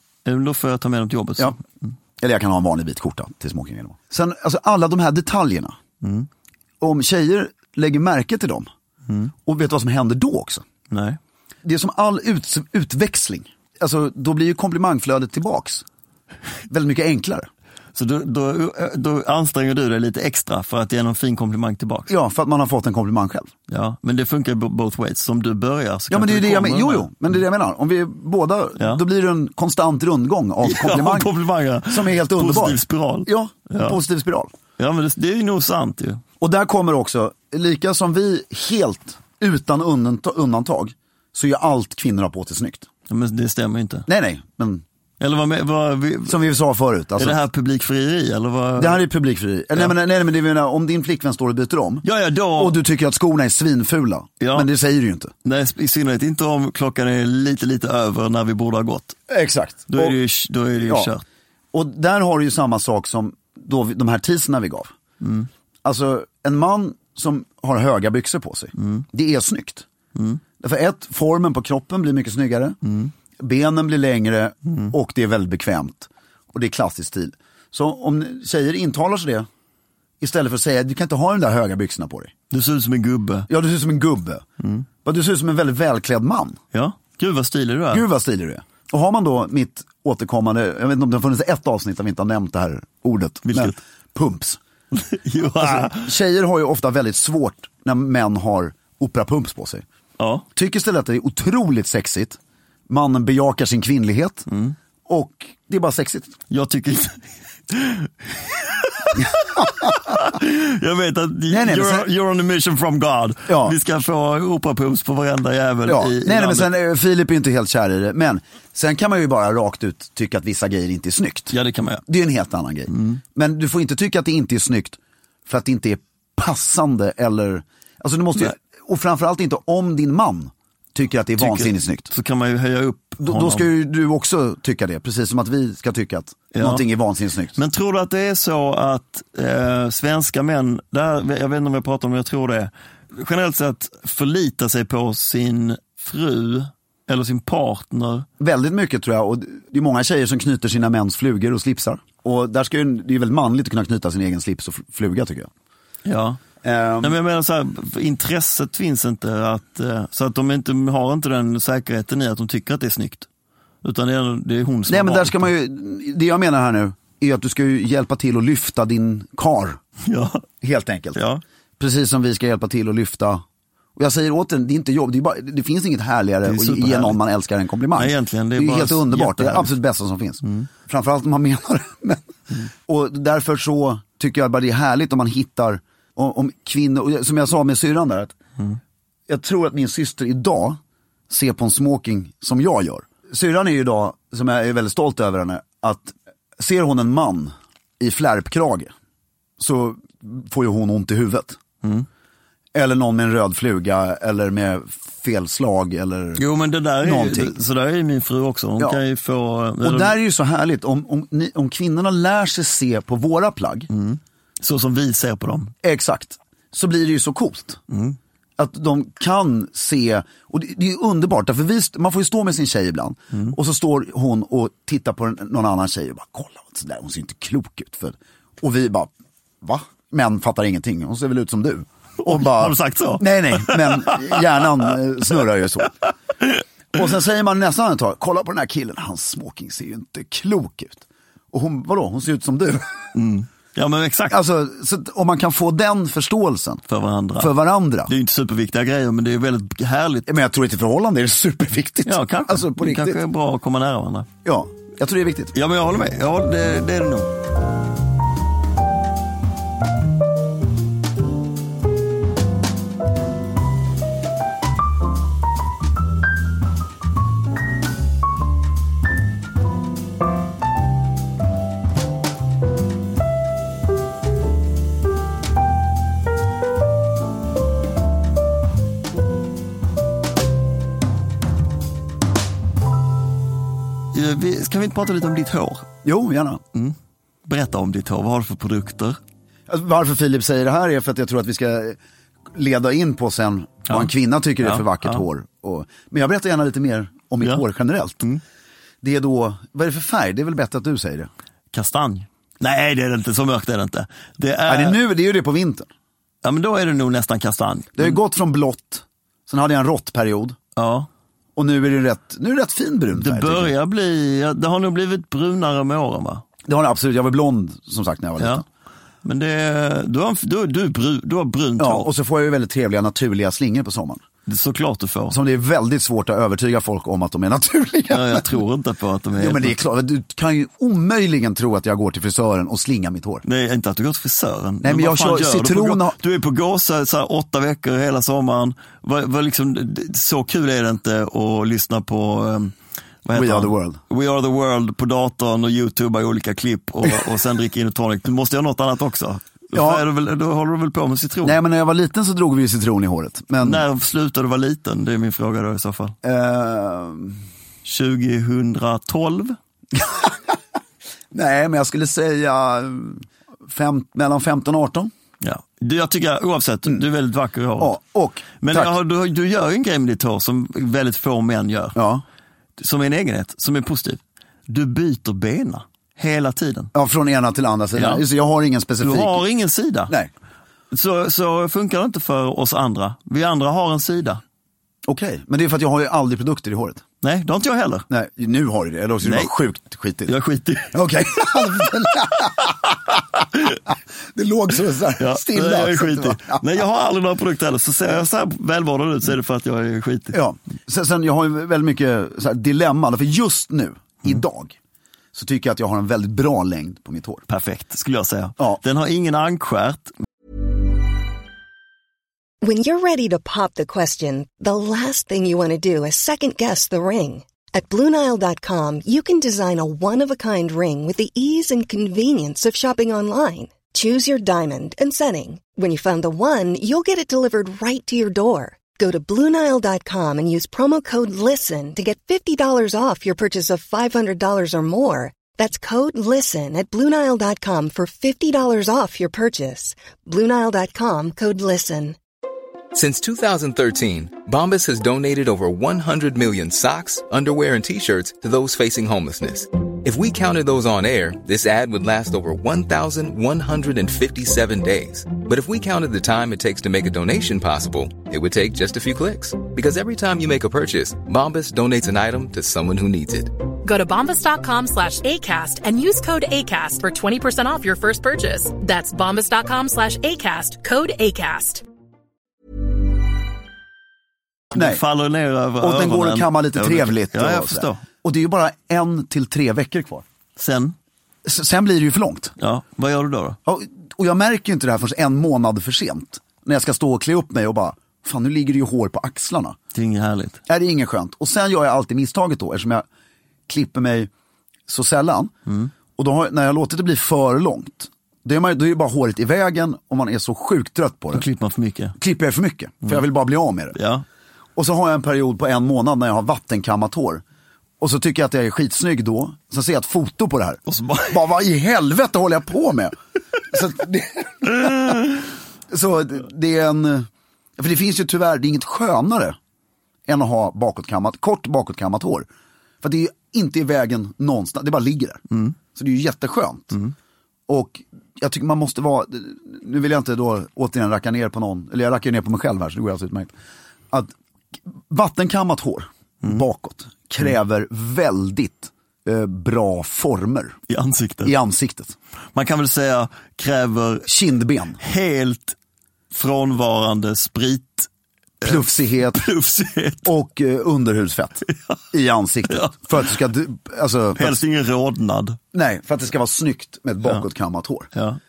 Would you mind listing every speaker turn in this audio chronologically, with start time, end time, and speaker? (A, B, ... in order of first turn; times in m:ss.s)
0:00.2-0:01.9 A
0:02.2-0:05.8 B
0:06.0-0:06.3 A
0:06.8-0:08.7 B
0:09.1-0:09.3 A
0:09.4-0:10.6 B
0:10.9-0:11.2 A
0:11.6-0:15.8 B
0:16.7-0:17.5 B
0:17.9-0:22.1 A
0:22.1-0:23.5 B
0:23.7-0:27.1 A
0:26.1-0:31.3 B
0:30.6-0:34.0 A
0:31.9-0:34.5 B
0:34.8-0:36.2 A
0:36.4-0:42.9 B
0:43.1-0:44.1 A
0:44.1-0:44.8 B
0:45.2-0:46.4 A
0:46.2-0:47.4 B
0:47.2-0:49.0 A
0:48.8-0:52.0 B
0:52.0-0:52.8 A
0:52.6-0:55.3 B
0:54.4-0:54.7 A
0:55.4-0:59.2 A
0:59.3-1:00.2 B
0:59.9-1:01.2 A
1:00.8-1:01.1 B
1:01.7-1:04.9 B
1:05.2-1:05.5 A
1:05.8-1:09.8 B
1:08.8-1:09.0 A
1:10.1-1:10.4 A
1:10.6-1:12.8 B
1:12.8-1:13.1 A
1:13.4-1:19.5 B
1:14.7-1:14.9 A
1:20.2-1:22.3 B
1:22.5-1:23.5 A
1:23.5-1:24.4 B
1:24.6-1:24.8 A
1:25.0-1:26.6 B
1:26.7-1:28.0 A
1:27.9-1:34.6 B
1:33.4-1:33.8 A
1:34.9-1:36.1 A
1:35.6-1:39.8 B
1:40.2-1:40.4 A
1:40.5-1:42.4 B
1:42.9-1:44.5 B
1:44.5-1:44.7 A
1:45.1-1:46.4 B
1:46.5-1:56.7 A
1:49.2-1:49.9 B
1:51.5-1:52.1 B
1:53.5-1:53.8 B
1:55.8-2:01.5 B
2:01.5-2:02.0 A
2:02.1-2:12.1 B
2:02.9-2:03.2 A
2:11.4-2:13.7 A
2:13.2-2:17.6 B
2:16.5-2:16.8 A
2:17.6-2:28.2 A
2:28.4-2:35.5 B
2:36.0-2:36.4 A
2:36.6-2:37.2 B
2:37.0-2:43.2 A
2:43.8-2:45.4 A
2:44.9-2:49.8 B
2:50.0-2:50.4 A
2:50.6-2:51.2 B
2:51.1-2:51.4 A
2:51.8-2:53.4 B
2:54.0-3:02.3 B
2:56.4-2:57.2 A
2:57.9-2:59.7 A
3:02.9-3:08.3 B
3:09.3-3:18.9 B
3:19.6-3:21.6 B
3:22.7-3:26.4 B
3:26.4-3:30.2 A
3:27.0-3:27.6 B
3:29.8-3:33.9 B
3:33.9-3:35.7 A
3:35.8-3:37.8 B
3:37.9-3:38.2 A
3:38.6-3:55.9 B
3:52.2-3:54.4 A
3:56.9-4:03.1 B
4:03.1-4:04.4 A
4:04.3-4:06.8 B
4:06.9-4:07.5 A
4:07.4-4:08.1 B
4:08.1-4:10.3 A
4:10.3-4:13.2 B
4:12.0-4:14.3 A
4:14.4-4:15.5 B
4:15.5-4:17.3 A
4:44.1-4:45.9 A
4:46.0-4:46.6 B
4:46.7-4:49.2 A
4:49.7-4:52.0 B
4:52.5-4:58.2 B
4:54.6-4:55.2 A
4:59.0-5:01.3 B
5:01.7-5:05.0 A
5:04.7-5:05.9 B
5:06.4-5:08.2 A
5:08.0-5:10.6 B
5:10.8-5:11.1 A
5:11.6-5:13.7 B
5:13.1-5:16.4 A
5:16.6-5:18.6 B
5:19.2-5:22.1 A
5:21.8-5:24.2 B
5:24.5-5:25.4 A
5:25.3-5:28.6 B
5:28.1-5:29.8 A
5:29.3-5:33.4 B
5:33.4-5:42.7 A
5:34.8-5:36.2 B
5:43.2-5:51.6 A
5:43.3-5:44.0 B
5:49.7-5:50.0 B
5:51.4-5:53.8 B
5:53.6-5:56.1 A
5:56.2-5:57.4 B
5:57.8-5:59.6 A
5:59.9-6:00.6 B
6:01.3-6:05.1 B
6:05.4-6:08.0 A
6:07.8-6:09.0 B
6:08.6-6:12.0 A
6:11.9-6:12.2 B
6:12.8-6:16.9 A
6:16.9-6:19.4 B
6:18.0-6:18.2 A
6:19.0-6:20.1 A
6:20.9-6:24.4 A
6:25.0-6:27.0 B
6:27.2-6:28.1 A
6:28.1-6:30.4 B
6:29.2-6:29.5 A
6:30.2-6:31.0 A
6:30.9-6:33.4 B
6:34.3-6:36.6 B
6:35.2-6:40.4 A
6:40.3-6:44.8 B
6:45.3-6:47.4 B
6:47.5-6:50.1 A
6:52.6-7:22.2 C
7:22.9-7:43.5 D
7:43.8-7:51.8 E
7:54.7-7:55.0 B
7:54.7-7:58.0 A
7:55.8-8:00.2 B
8:00.6-8:00.9 A
8:01.4-8:02.5 B
8:02.6-8:03.6 A
8:03.6-8:09.8 B
8:09.9-8:10.6 A
8:10.7-8:13.0 B
8:13.7-8:14.3 B
8:14.9-8:15.5 B
8:16.2-8:21.4 B
8:21.3-8:22.2 A
8:22.2-8:24.0 B
8:23.9-8:24.2 A
8:24.8-8:27.4 B
8:28.0-8:33.2 B
8:30.9-8:31.4 A
8:33.7-8:35.4 B
8:34.8-8:35.3 A
8:35.9-8:37.3 B
8:37.8-8:39.6 B
8:40.3-8:42.5 B
8:43.0-8:47.0 B
8:47.7-8:53.5 B
8:54.9-9:00.8 B
9:00.9-9:01.5 A
9:01.4-9:02.2 B
9:02.5-9:04.3 A
9:04.3-9:05.0 B
9:05.0-9:05.8 A
9:06.3-9:08.1 A
9:08.6-9:10.3 A
9:08.6-9:09.5 B
9:10.2-9:14.6 B
9:12.7-9:12.9 A
9:14.4-9:15.6 A
9:15.7-9:18.1 B
9:18.1-9:18.4 A